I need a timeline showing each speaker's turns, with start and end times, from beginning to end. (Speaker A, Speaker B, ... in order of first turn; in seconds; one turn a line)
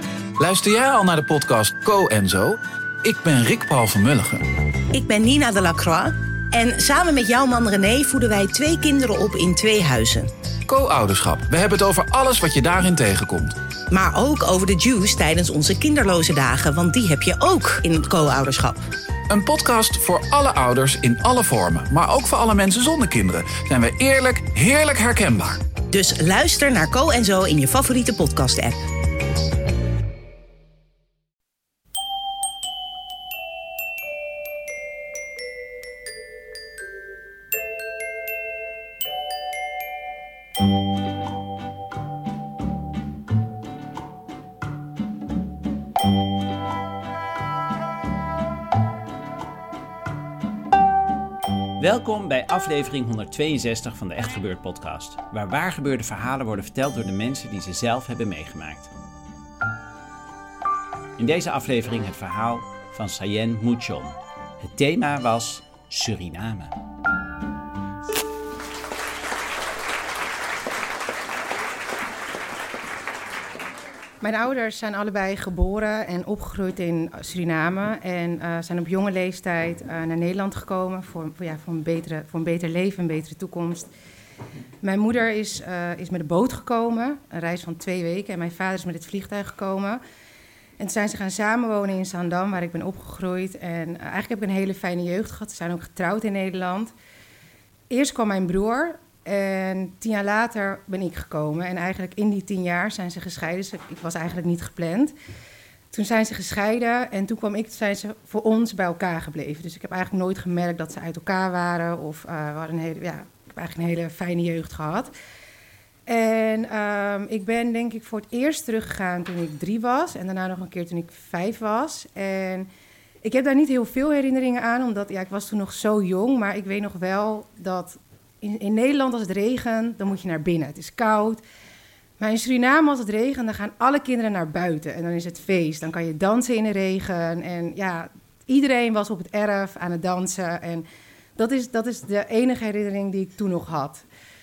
Speaker A: 0.4-4.5
Speaker B: 4.9-10.3
Speaker A: 10.7-13.6
Speaker B: 13.8-18.9
Speaker A: 19.3-25.7
Speaker B: 25.7-28.8
Speaker C: 51.8-58.9
Speaker C: 61.2-66.7
Speaker D: 74.2-83.9
Speaker D: 84.8-90.0
Speaker D: 90.8-96.9
Speaker D: 97.9-105.1
Speaker D: 105.9-115.1
Speaker D: 116.1-122.7
Speaker D: 123.2-131.4
Speaker D: 132.2-140.8
Speaker D: 141.4-144.1